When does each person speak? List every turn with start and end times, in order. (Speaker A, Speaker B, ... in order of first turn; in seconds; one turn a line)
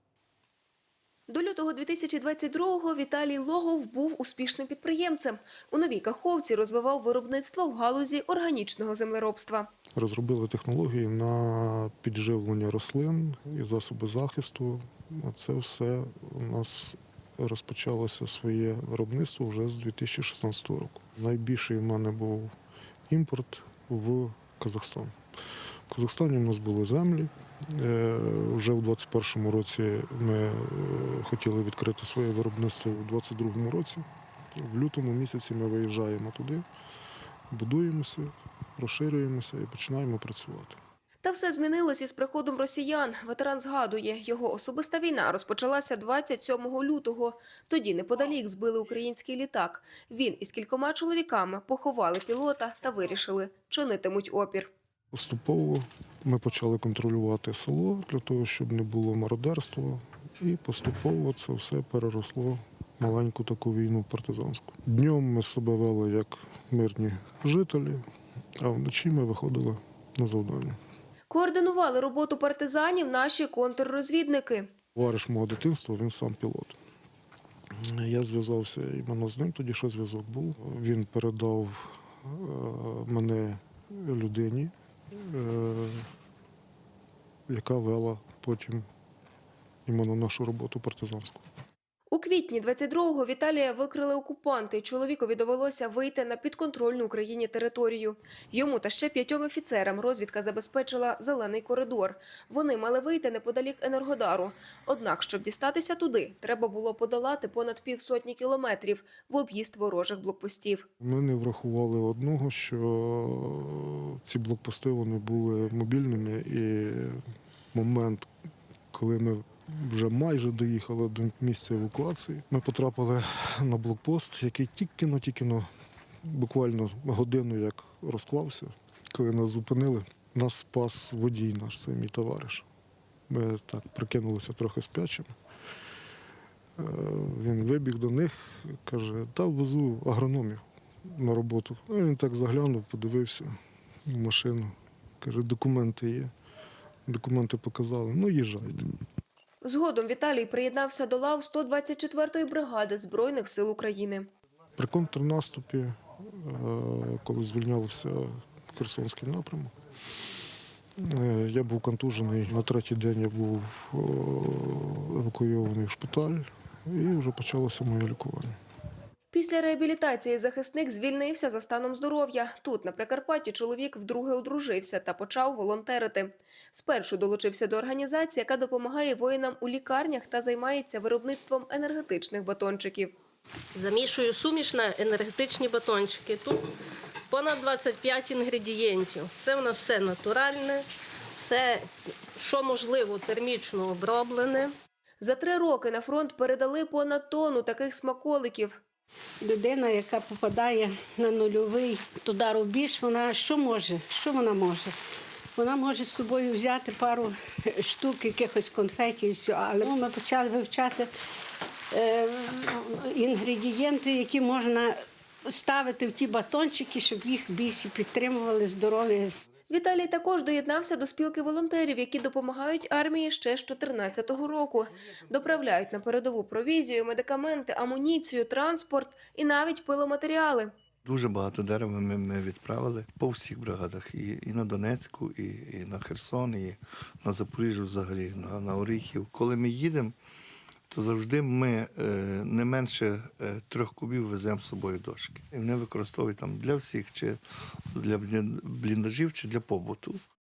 Speaker A: 1.3-9.7
Speaker B: 9.9-22.5
Speaker B: 23.1-25.1
Speaker B: 25.9-36.6
Speaker B: 37.5-40.8
Speaker A: 41.2-54.7
Speaker B: 55.1-68.0
Speaker B: 68.6-70.8
Speaker A: 71.3-74.7
Speaker B: 74.9-76.8
Speaker B: 77.8-86.1
Speaker B: 87.5-88.8
Speaker B: 89.8-91.4
Speaker A: 92.1-110.9
Speaker B: 111.0-117.2
Speaker B: 117.7-118.3
Speaker B: 118.9-125.7
Speaker B: 126.2-132.6
Speaker B: 133.3-135.3
Speaker B: 136.8-143.5
Speaker B: 144.1-146.3
Speaker B: 147.1-148.9
Speaker A: 149.6-154.3
Speaker B: 154.8-159.7
Speaker B: 161.0-168.5
Speaker A: 169.3-183.1
Speaker C: 183.7-186.6
Speaker C: 187.3-190.8
Speaker C: 191.4-194.7
Speaker A: 195.2-198.8
Speaker D: 199.4-204.9
Speaker D: 205.6-211.1
Speaker D: 211.9-214.9
Speaker D: 215.5-219.5
Speaker A: 219.7-230.7
Speaker E: 231.0-240.1
Speaker E: 240.9-247.4
Speaker E: 247.9-250.2